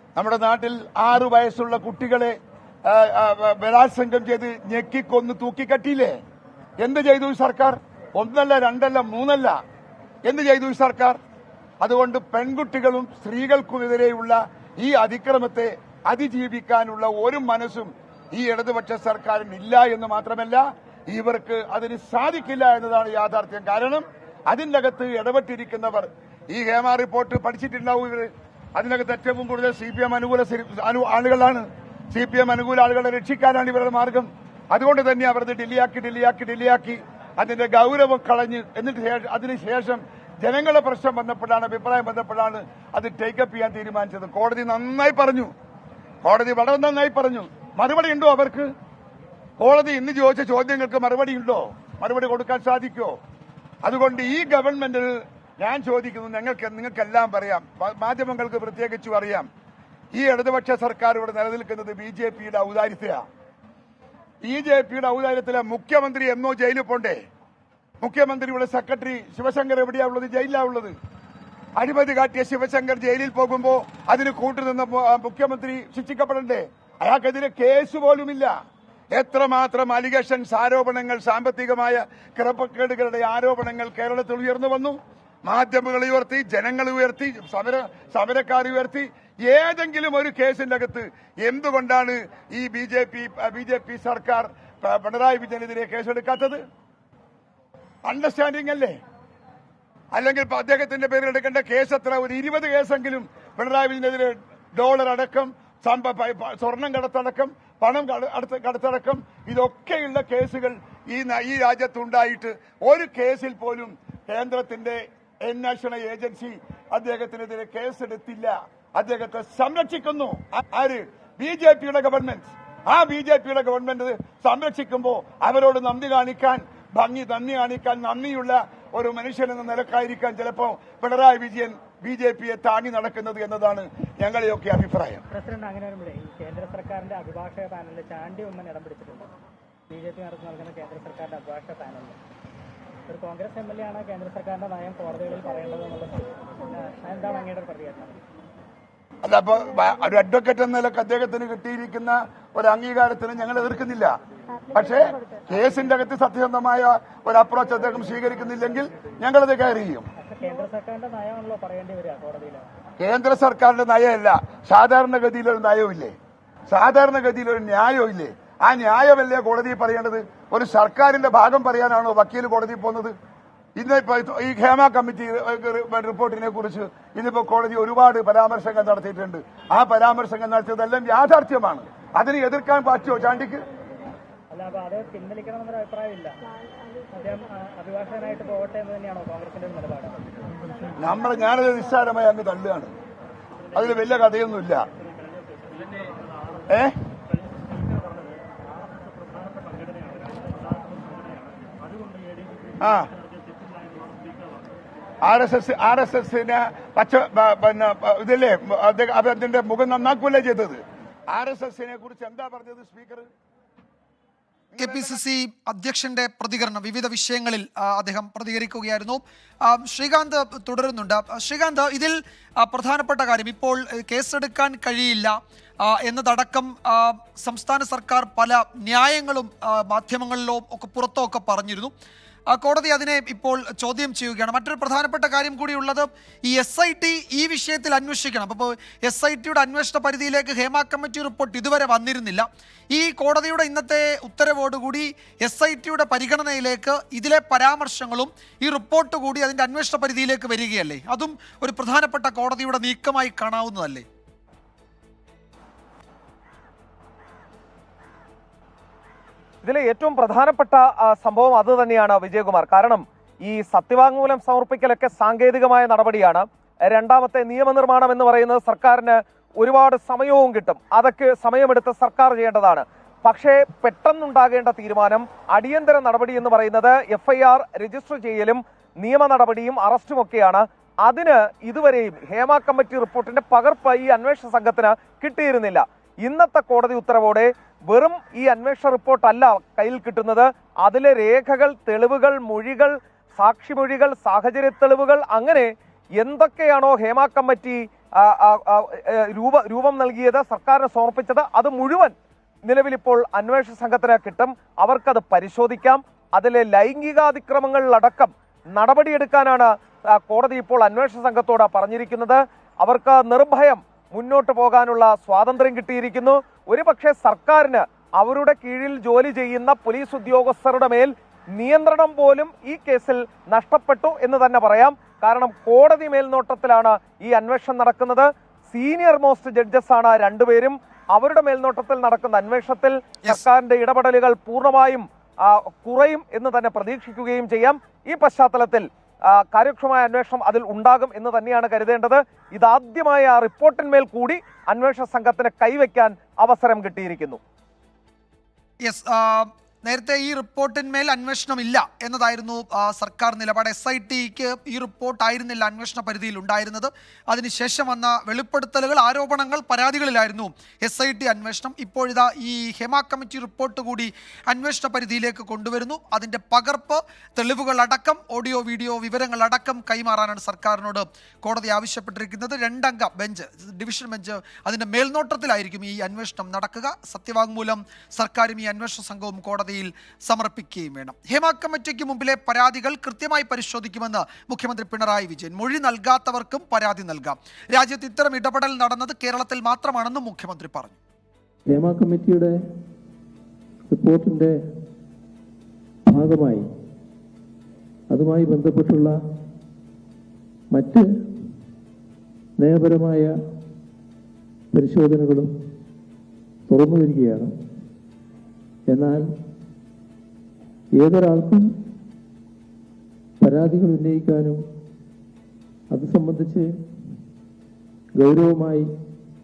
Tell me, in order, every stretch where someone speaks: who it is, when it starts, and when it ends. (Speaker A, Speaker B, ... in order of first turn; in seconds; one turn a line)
Speaker A: 0.2-6.2
Speaker A: 6.8-9.6
Speaker A: 10.2-11.2
Speaker A: 11.8-45.5
Speaker A: 46.2-48.7
Speaker A: 49.6-53.2
Speaker A: 53.8-59.5
Speaker A: 60.1-63.2
Speaker A: 64.5-67.2
Speaker A: 68.0-71.0
Speaker A: 71.8-78.5
Speaker A: 79.2-96.6
Speaker A: 98.0-99.0
Speaker A: 100.1-135.2
Speaker B: 135.3-139.3
Speaker B: 139.9-142.2
Speaker B: 143.1-148.2
Speaker A: 149.2-154.1
Speaker A: 154.7-160.1
Speaker B: 160.2-162.7
Speaker A: 163.0-166.2
Speaker A: 166.7-173.2
Speaker A: 173.8-183.6
Speaker B: 184.5-186.4
Speaker B: 187.1-190.9
Speaker A: 191.0-192.9
Speaker A: 193.7-194.8
Speaker B: 195.2-196.5
Speaker A: 196.7-196.9
Speaker B: 197.5-204.6
Speaker A: 202.8-203.1
Speaker A: 205.2-213.3
Speaker A: 214.7-215.2
Speaker C: 214.8-231.9
Speaker C: 232.5-254.1
Speaker D: 259.6-302.1
Speaker D: 302.7-347.4
Speaker C: 348.9-391.0
Speaker E: 391.7-392.6
Speaker E: 393.9-394.6
Speaker E: 396.1-396.7
Speaker E: 398.1-399.2
Speaker E: 400.7-401.1
Speaker E: 402.6-403.4
Speaker E: 404.7-405.5
Speaker E: 406.7-407.5
Speaker E: 408.9-409.3
Speaker E: 410.9-411.7
Speaker E: 413.4-414.6
Speaker E: 415.9-416.7
Speaker E: 418.1-418.9